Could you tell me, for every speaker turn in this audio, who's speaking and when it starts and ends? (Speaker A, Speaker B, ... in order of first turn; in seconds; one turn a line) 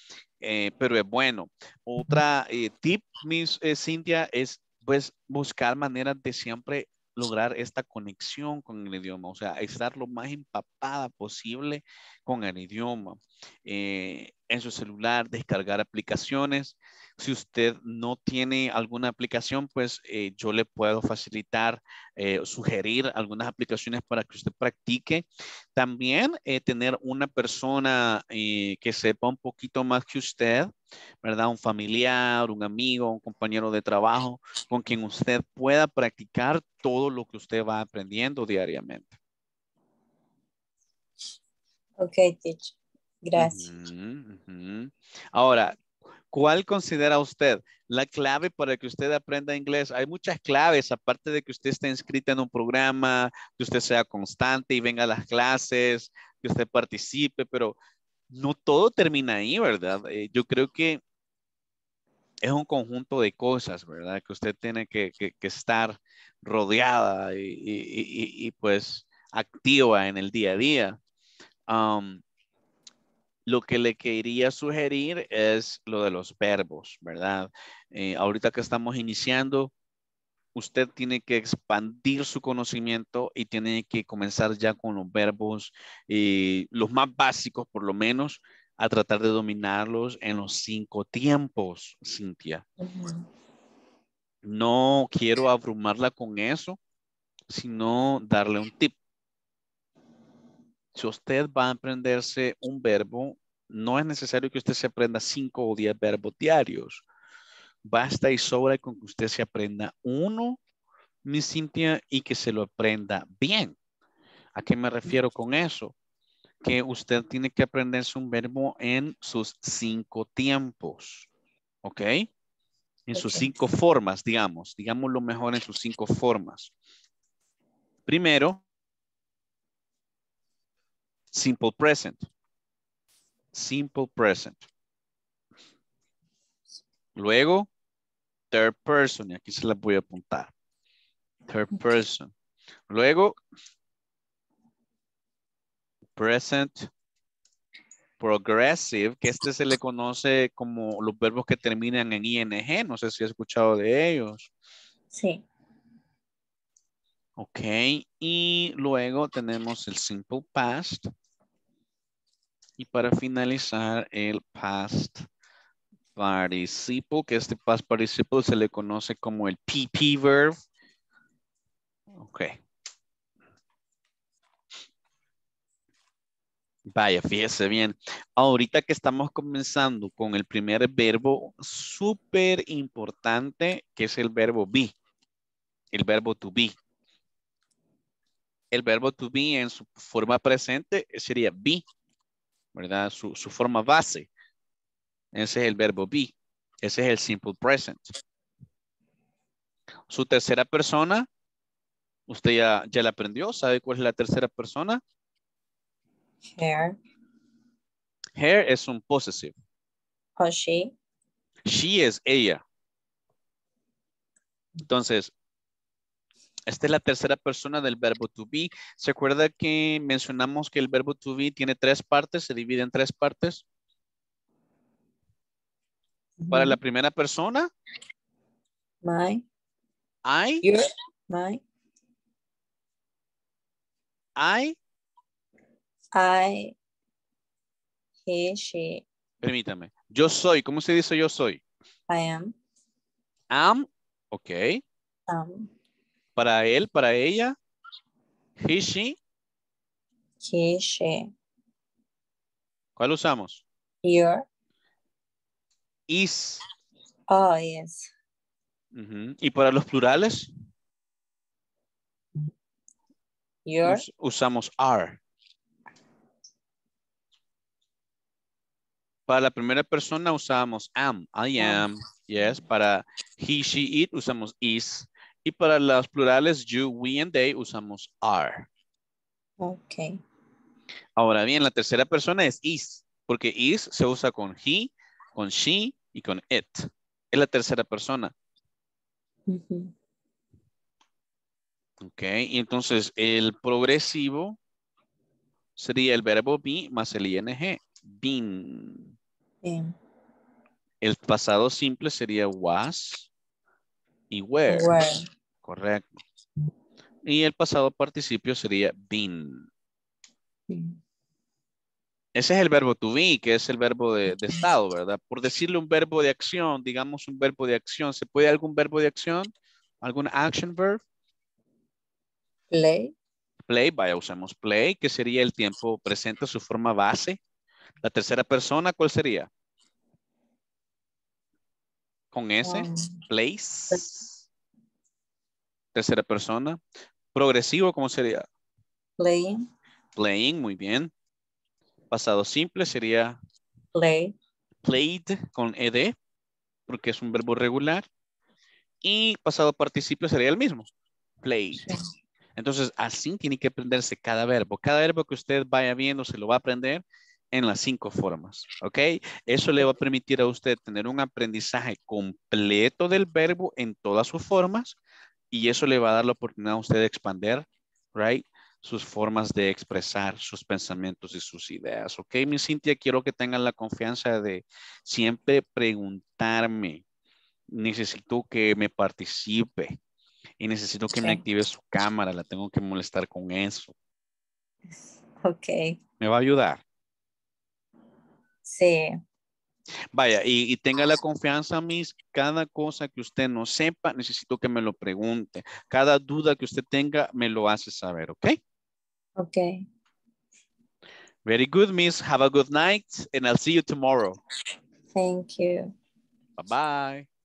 Speaker A: 0.4-30.7
Speaker A: 31.2-39.1
Speaker B: 42.0-43.7
Speaker A: 43.4-45.8
Speaker A: 46.3-57.8
Speaker A: 58.3-61.0
Speaker A: 62.4-71.0
Speaker A: 71.7-72.2
Speaker A: 73.5-79.7
Speaker A: 80.5-92.6
Speaker B: 92.8-93.2
Speaker A: 94.4-96.8
Speaker A: 97.5-99.0
Speaker A: 100.9-107.0
Speaker A: 107.8-110.6
Speaker A: 111.2-113.8
Speaker A: 114.5-115.9
Speaker A: 116.6-121.3
Speaker A: 121.8-122.3
Speaker A: 123.1-126.7
Speaker B: 123.1-123.5
Speaker A: 128.1-128.6
Speaker A: 131.3-132.2
Speaker A: 133.5-134.7
Speaker A: 137.2-137.7
Speaker A: 138.5-140.5
Speaker A: 141.5-142.3
Speaker A: 142.9-143.4
Speaker A: 146.2-146.9
Speaker A: 148.2-154.5
Speaker B: 155.1-155.4
Speaker A: 157.4-161.1
Speaker A: 162.8-165.2
Speaker A: 166.2-170.6
Speaker A: 172.2-172.5
Speaker A: 176.9-184.9
Speaker A: 185.9-186.8
Speaker A: 188.7-191.8
Speaker A: 192.7-194.3
Speaker A: 195.3-198.1
Speaker A: 200.1-201.3
Speaker A: 202.3-205.0
Speaker B: 206.5-207.0
Speaker A: 208.3-209.6
Speaker B: 210.4-210.9
Speaker A: 211.7-212.6
Speaker A: 214.8-215.3
Speaker A: 216.7-223.6
Speaker B: 226.4-226.8
Speaker A: 226.5-227.7
Speaker B: 229.0-229.4
Speaker A: 230.2-230.7
Speaker B: 230.6-231.6
Speaker A: 234.4-234.8
Speaker B: 236.1-236.7
Speaker B: 238.2-239.0
Speaker A: 239.4-241.6
Speaker B: 242.1-242.5
Speaker A: 243.5-244.8
Speaker B: 245.3-245.7
Speaker A: 246.3-247.6
Speaker A: 248.6-249.2
Speaker B: 250.4-251.3
Speaker A: 253.0-253.6
Speaker B: 254.0-254.4
Speaker A: 256.1-256.6
Speaker B: 257.3-258.1
Speaker A: 258.9-260.5
Speaker B: 263.6-264.0
Speaker A: 263.8-265.2
Speaker A: 269.3-278.7
Speaker B: 279.6-280.2
Speaker A: 281.2-288.3
Speaker B: 289.5-289.9
Speaker A: 292.0-294.6
Speaker A: 295.8-299.1
Speaker B: 299.6-299.9
Speaker A: 301.0-303.3
Speaker A: 304.3-305.0
Speaker B: 304.7-305.2
Speaker A: 305.6-306.1
Speaker A: 307.2-309.7
Speaker A: 312.3-319.5
Speaker A: 320.0-321.0
Speaker B: 322.7-323.1
Speaker A: 323.7-327.4
Speaker A: 328.0-329.5
Speaker A: 332.3-334.3
Speaker B: 332.6-333.2
Speaker A: 335.9-336.8
Speaker A: 337.3-338.4
Speaker B: 339.2-339.6
Speaker A: 340.1-341.1
Speaker A: 342.1-343.4
Speaker B: 343.9-344.3
Speaker A: 344.8-346.1
Speaker A: 346.9-348.1
Speaker A: 349.0-350.9
Speaker A: 351.4-351.9
Speaker A: 352.6-365.0
Speaker A: 365.5-377.0
Speaker A: 377.7-380.0
Speaker A: 380.6-383.9
Speaker B: 381.1-381.4
Speaker B: 385.4-386.0
Speaker A: 386.2-386.8
Speaker B: 388.7-389.1
Speaker A: 390.1-398.6
Speaker B: 399.4-399.8
Speaker A: 401.4-404.4
Speaker B: 405.1-405.9
Speaker A: 406.6-407.3